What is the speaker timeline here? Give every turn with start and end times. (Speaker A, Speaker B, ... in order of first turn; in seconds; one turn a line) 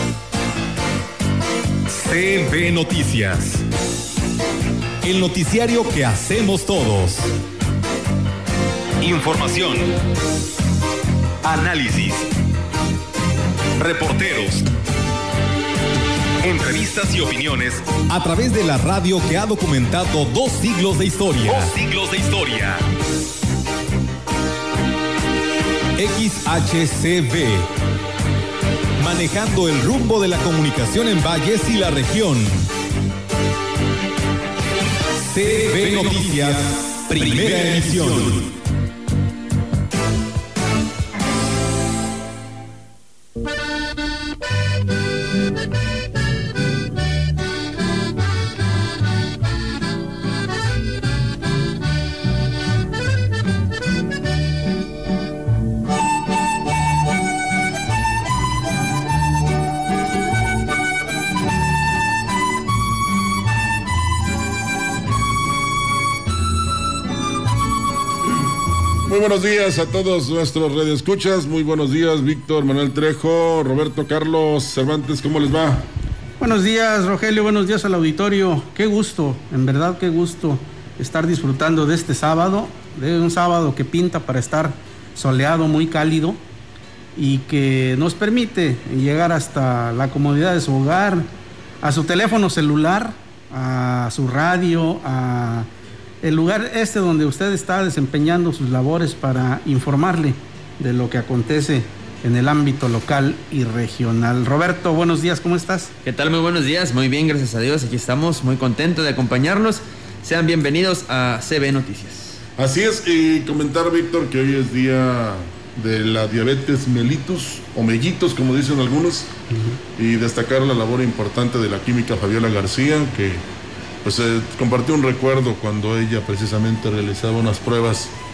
Speaker A: 1.9-3.6
Speaker A: 5.0-7.3
Speaker A: 9.0-9.9
Speaker A: 11.4-12.3
Speaker A: 13.8-14.7
Speaker A: 16.4-22.8
Speaker A: 26.0-27.7
Speaker A: 29.0-32.7
Speaker A: 35.3-38.5
Speaker B: 69.1-75.9
Speaker C: 76.4-86.4
Speaker C: 87.2-91.3
Speaker C: 91.8-95.7
Speaker C: 96.2-105.9
Speaker D: 106.0-112.4
Speaker B: 112.6-119.3
Speaker C: 119.5-119.8
Speaker B: 120.0-123.5
Speaker B: 124.0-128.1